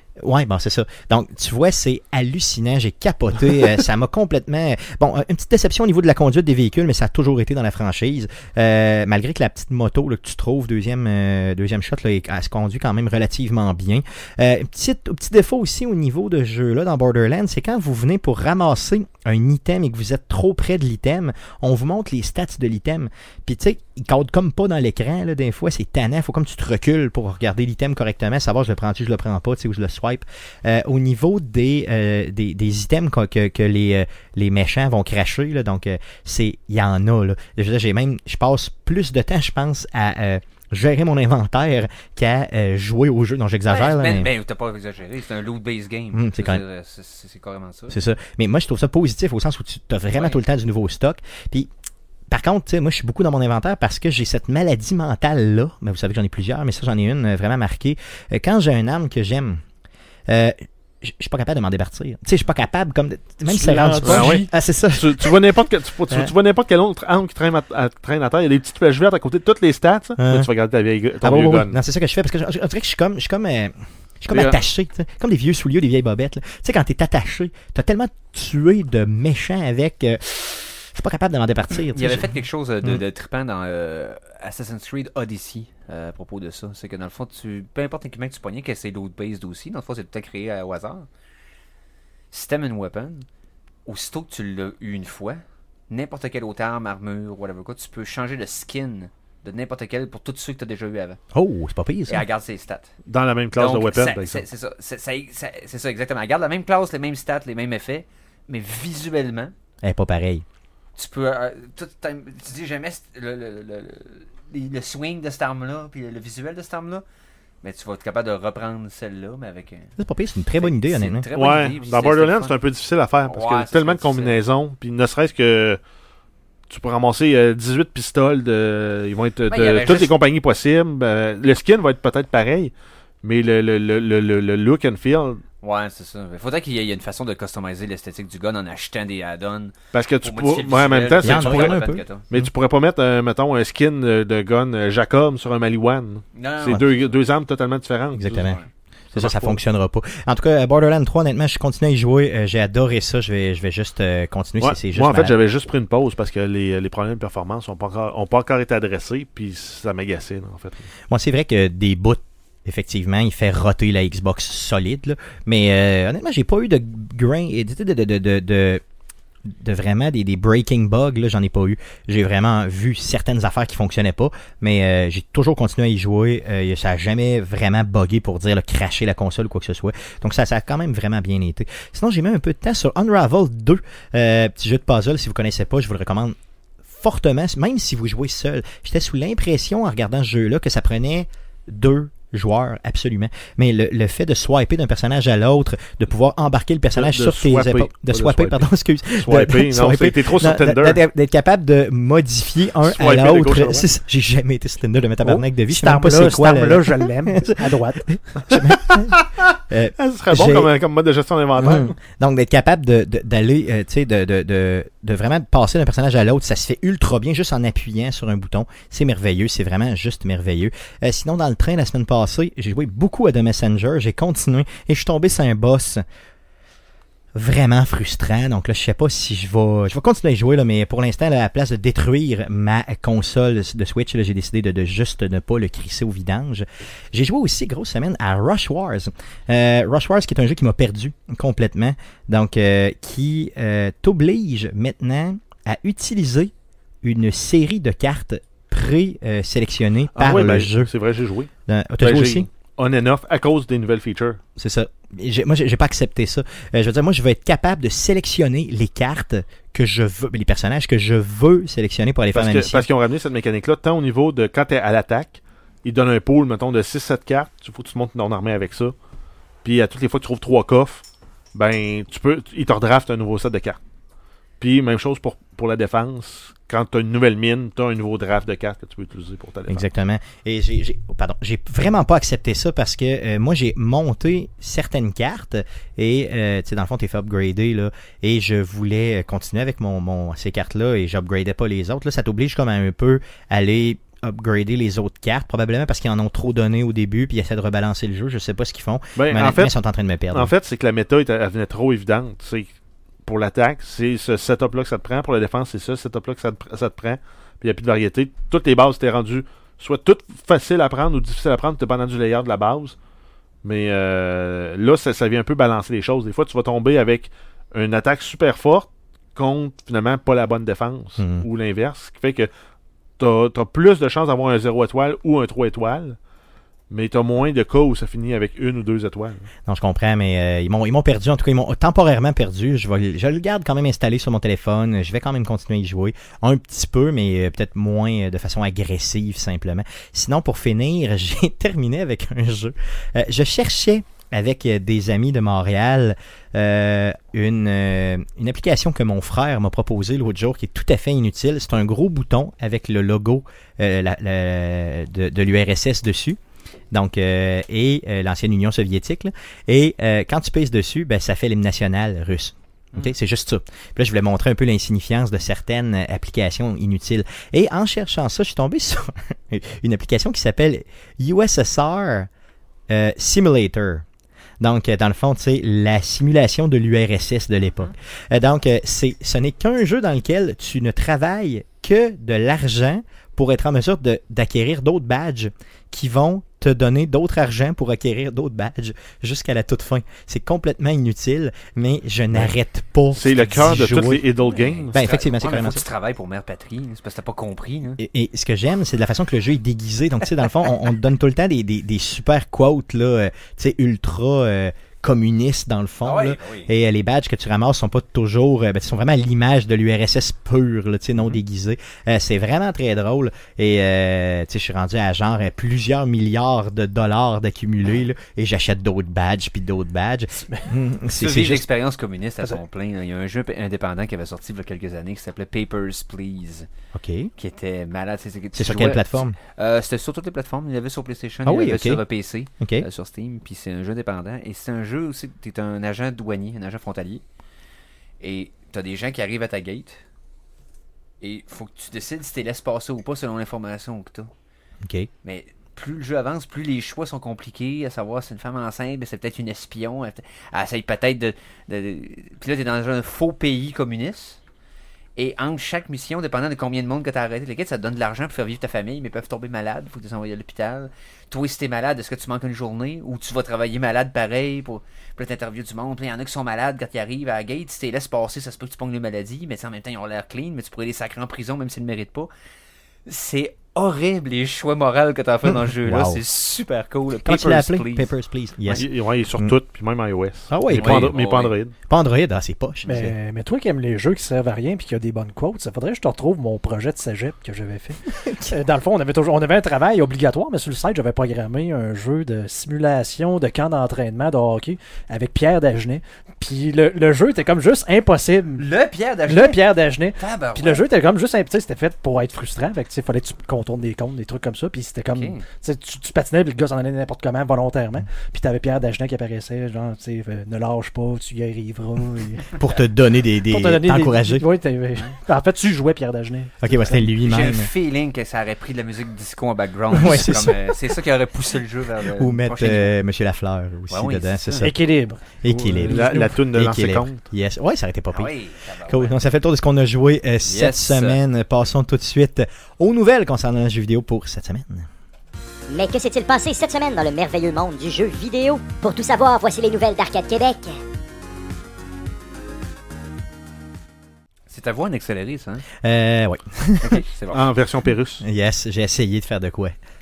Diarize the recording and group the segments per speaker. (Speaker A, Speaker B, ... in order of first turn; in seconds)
Speaker A: 0.2-44.3, 46.1-46.6, 47.9-51.7, 52.3-59.6, 60.3-65.4, 70.2-70.5, 71.2-83.0, 101.3-102.2, 109.8-110.4, 120.0-121.3, 141.2-142.5, 148.1-148.6, 149.1-155.3, 161.1-168.8, 169.4-186.3, 186.9-210.7, 211.6-226.0, 227.3-246.5, 247.0-250.9, 251.7-252.5, 254.6-262.9, 279.7-300.5, 321.2-321.4, 329.7-356.4, 356.9-372.3, 372.9-374.0, 374.6-394.3, 394.9-395.8, 398.0-421.6, 426.9-427.3, 428.5-429.4, 431.4-432.0, 432.6-432.9, 444.8-445.1, 475.4-476.2, 477.2-479.5, 480.5-481.2, 481.9-483.1, 488.1-488.6, 512.5-514.5, 516.6-517.7, 519.9-520.8, 522.1-524.8, 525.4-534.9, 545.8-547.0, 548.2-549.8
Speaker B: 43.7-48.0, 81.9-91.1, 92.3-93.2, 93.8-101.2, 102.1-102.9, 103.5-109.5, 111.0-117.0, 117.6-119.9, 120.5-122.5, 123.2-124.4, 129.5-130.1, 135.6-142.2, 146.3-146.9, 394.4-398.0, 406.0-406.7, 421.1-426.7, 427.4-437.2, 438.2-440.0, 441.2-444.3, 445.2-454.4, 455.1-472.3, 473.1-478.1, 480.8-481.6, 498.6-500.8, 505.1-505.4, 517.2-522.9, 523.9-524.7, 528.1-529.2, 530.4-531.2, 544.5-545.6, 546.8-547.4
Speaker C: 63.5-64.5, 205.2-208.1, 482.8-498.6, 499.3-512.6, 513.5-517.0, 524.6-526.3
Speaker D: 64.0-71.8, 74.3-74.6, 103.0-104.4, 121.3-125.8, 126.7-135.4, 139.9-141.8, 142.3-148.6, 149.1-149.6, 154.6-160.9, 196.9-198.7, 199.2-201.0, 202.8-203.9, 208.5-211.9, 250.2-251.5, 252.0-254.4, 262.3-268.9, 269.6-273.8, 274.6-279.8, 299.1-299.7, 300.3-302.7, 303.2-312.9, 313.6-322.5, 323.2-326.2, 326.9-329.5, 393.1-394.9, 478.8-481.7, 525.5-527.2, 547.3-548.2
Speaker E: 535.7-540.7